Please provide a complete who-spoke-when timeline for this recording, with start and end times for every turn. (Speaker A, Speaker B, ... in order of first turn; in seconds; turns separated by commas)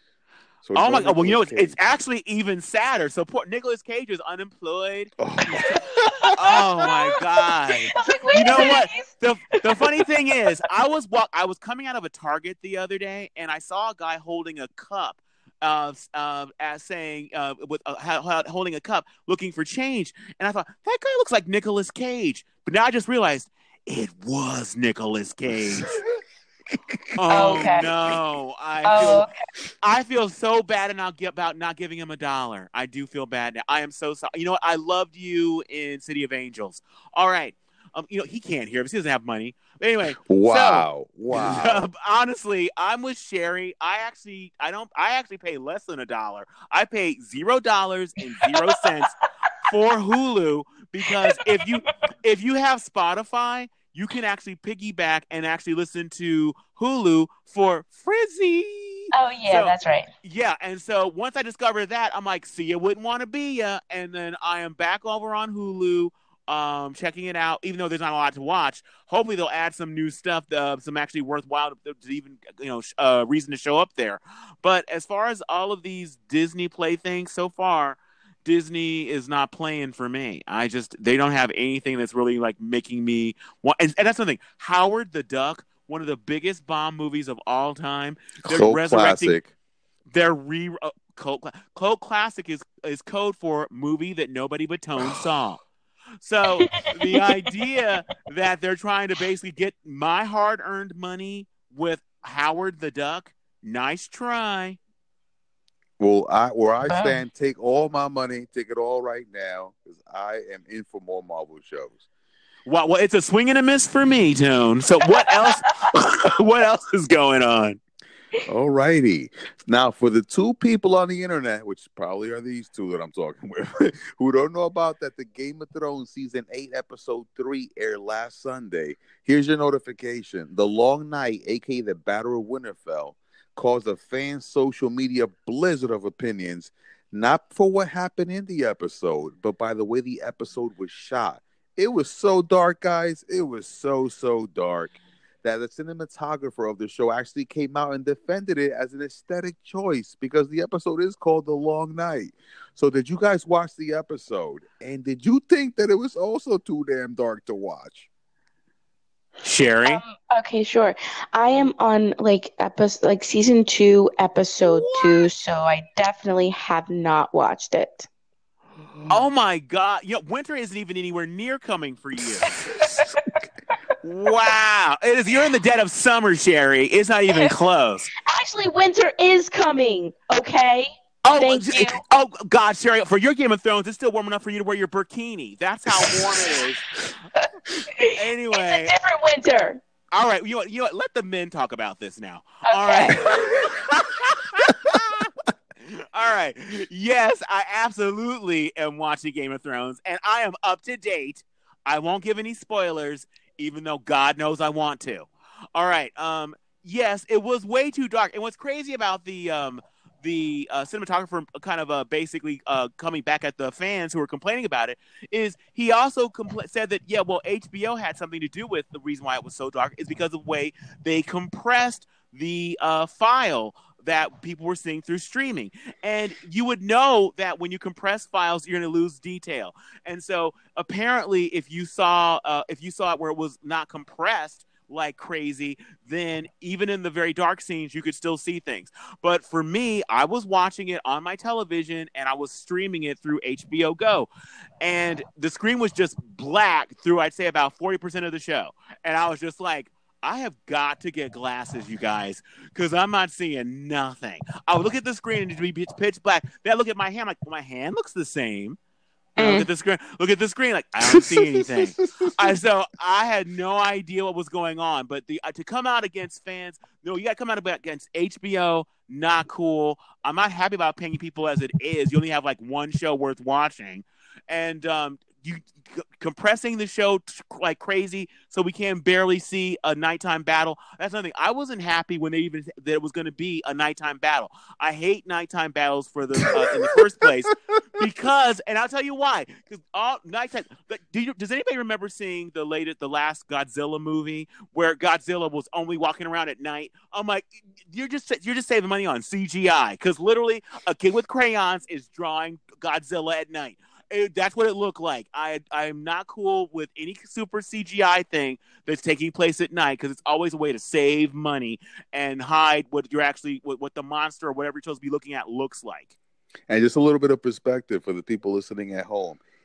Speaker A: 0.6-1.8, Speaker B: 0.8-26.0, Speaker A: 5.2-6.4, Speaker C: 6.2-9.1, Speaker C: 9.7-10.0, Speaker A: 25.7-27.9, Speaker B: 27.2-29.3, Speaker C: 27.3-27.9, Speaker C: 28.9-29.3, Speaker B: 29.8-89.4, Speaker A: 40.2-41.9, Speaker C: 51.3-51.6, Speaker C: 59.1-60.1, Speaker A: 88.5-89.5, Speaker B: 90.1-95.6, Speaker B: 96.2-104.8, Speaker C: 96.7-97.3, Speaker A: 106.0-112.0, Speaker C: 106.9-107.2, Speaker B: 112.7-117.8, Speaker C: 115.1-115.6, Speaker A: 118.5-158.1, Speaker B: 159.4-160.0, Speaker C: 159.9-168.1, Speaker B: 164.6-165.3, Speaker B: 169.1-173.0, Speaker C: 172.5-173.2, Speaker B: 174.0-178.1, Speaker C: 178.2-182.0, Speaker B: 181.2-186.8, Speaker C: 187.4-189.8, Speaker B: 188.1-188.9, Speaker B: 190.1-244.3, Speaker C: 192.7-193.5, Speaker B: 244.8-258.8, Speaker C: 259.4-259.7, Speaker B: 259.4-316.1, Speaker A: 261.1-262.6, Speaker A: 286.4-287.3, Speaker A: 316.7-319.4